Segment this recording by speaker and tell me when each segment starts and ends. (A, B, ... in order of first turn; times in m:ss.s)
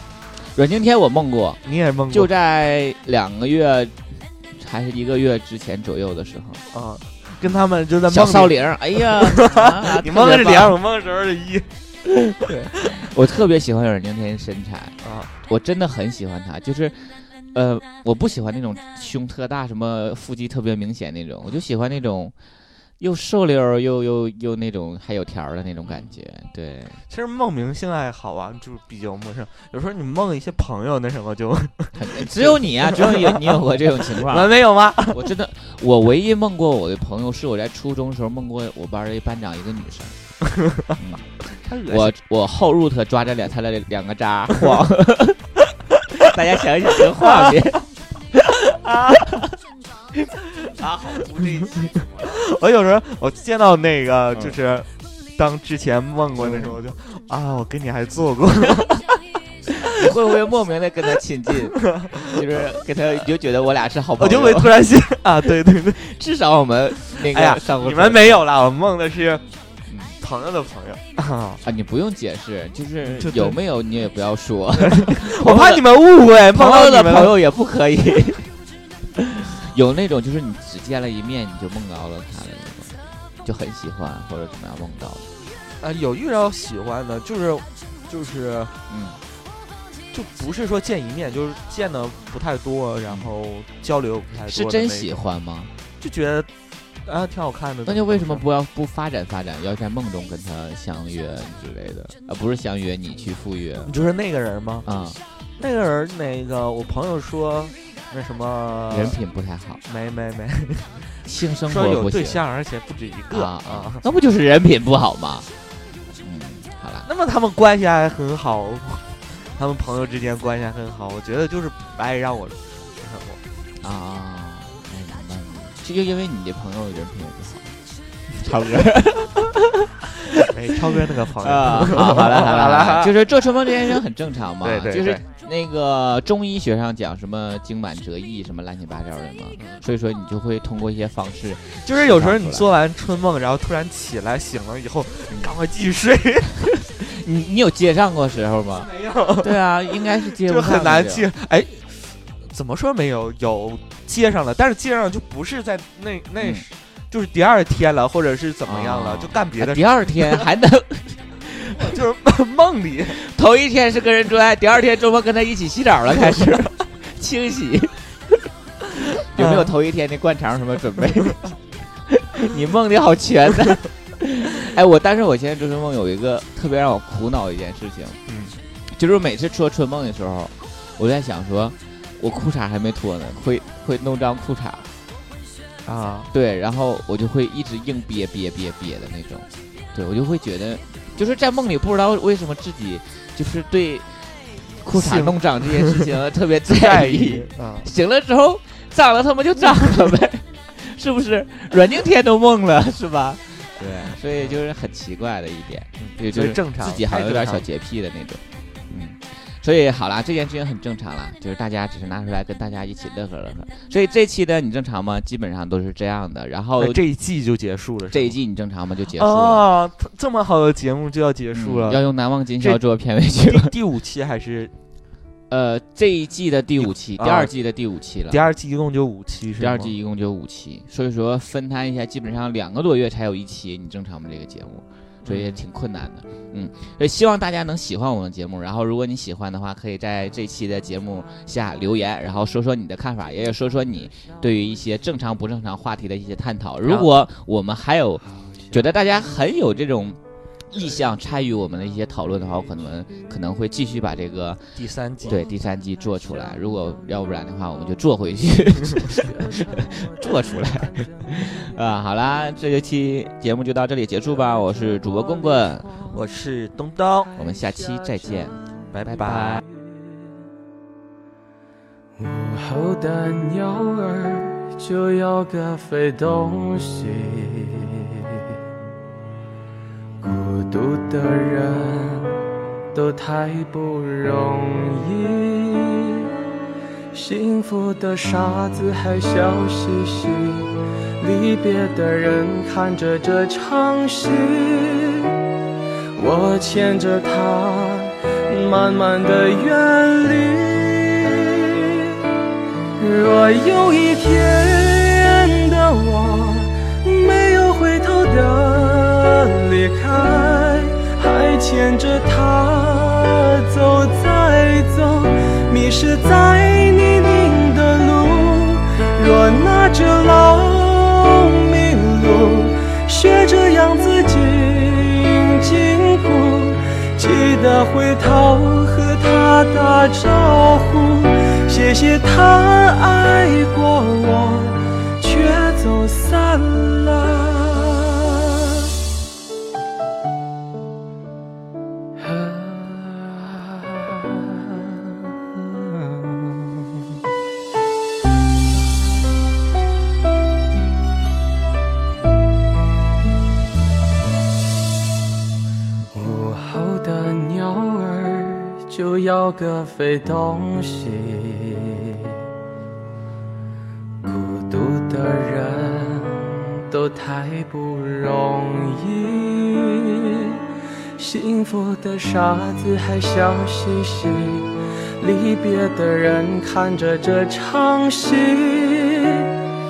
0:00.4-0:06.6 A
0:01.6-0:02.3 B
0:06.7-0:11.7 B
0:07.4-0:10.8 A
0:12.2-0:22.4 A
0:15.0-0:15.3 B
0:23.0-0:27.0 A
0:27.1-0:35.3 B
0:32.0-0:34.5 A
0:35.1-0:40.2 A
0:41.0-0:41.3 A
0:41.4-0:42.2 B
0:41.9-0:45.4 A
0:46.2-0:48.4 A
0:47.2-0:47.8 B
0:48.8-0:49.3 B
0:50.8-0:52.2 A
0:51.3-0:58.9 B
0:56.4-0:56.8 A
0:59.9-1:04.8 A
1:02.0-1:02.7 B
1:04.2-1:06.0 B
1:06.0-1:08.4 A
1:07.1-1:09.4 B
1:09.9-1:10.2 A
1:10.2-1:11.6 B
1:11.6-1:15.8 A
1:13.0-1:13.6 B
1:14.8-1:17.4 B
1:16.5-1:18.5 A
1:19.2-1:25.3 A
1:25.8-1:28.7 B
1:28.9-1:29.2 A
1:30.1-1:35.2 B
1:33.1-1:33.3 A
1:34.5-1:35.7 A
1:36.0-1:36.5 B
1:37.0-1:38.4 B
1:37.9-1:43.9 A
1:43.8-1:44.9 B
1:44.8-1:45.2 A
1:45.6-1:49.2 B
1:48.9-1:49.8 A
1:49.9-1:51.1 B
1:51.2-1:52.4 A
1:51.7-1:54.0 B
1:53.3-1:55.5 A
1:56.2-1:57.1 A
1:57.0-2:03.4 B
2:03.8-2:07.8 A
2:08.4-2:09.9 A
2:10.4-2:13.2 B
2:11.4-2:22.7 A
2:14.6-2:15.2 B
2:19.6-2:19.8 B
2:21.8-2:26.5 B
2:26.8-2:31.3 A
2:28.9-2:29.6 B
2:30.3-2:40.4 B
2:36.4-2:36.6 A
2:38.7-2:42.0 A
2:41.8-2:43.2 B
2:43.2-2:48.5 A
2:49.3-2:51.5 A
2:49.4-2:49.7 B
2:52.1-2:58.2 A
2:58.3-2:58.6 B
2:58.9-3:04.9 A
3:05.8-3:06.3 B
3:06.3-3:37.0 A
3:14.9-3:16.1 B
3:16.7-3:17.9 B
3:26.0-3:27.6 B
3:36.8-3:38.4 B
3:38.1-3:39.6 A
3:39.2-3:42.0 B
3:41.5-3:43.7 A
3:43.4-3:44.7 B
3:45.5-3:48.4 A
3:46.8-3:47.5 B
3:48.3-3:49.9 B
3:49.6-4:26.0 A
3:55.2-3:55.6 B
4:06.8-4:07.1 B
4:14.8-4:15.4 B
4:19.5-4:20.0 C
4:26.1-4:27.3 B
4:27.4-4:29.6 A
4:28.9-4:29.6 B
4:32.2-4:38.4 C
4:40.2-4:46.3 C
4:47.1-4:55.4 C
4:56.2-5:02.2 C
5:03.0-5:38.9 C
5:42.2-5:46.8 C
5:56.1-6:02.3 C
6:04.2-6:10.6 C
6:11.2-6:19.5 C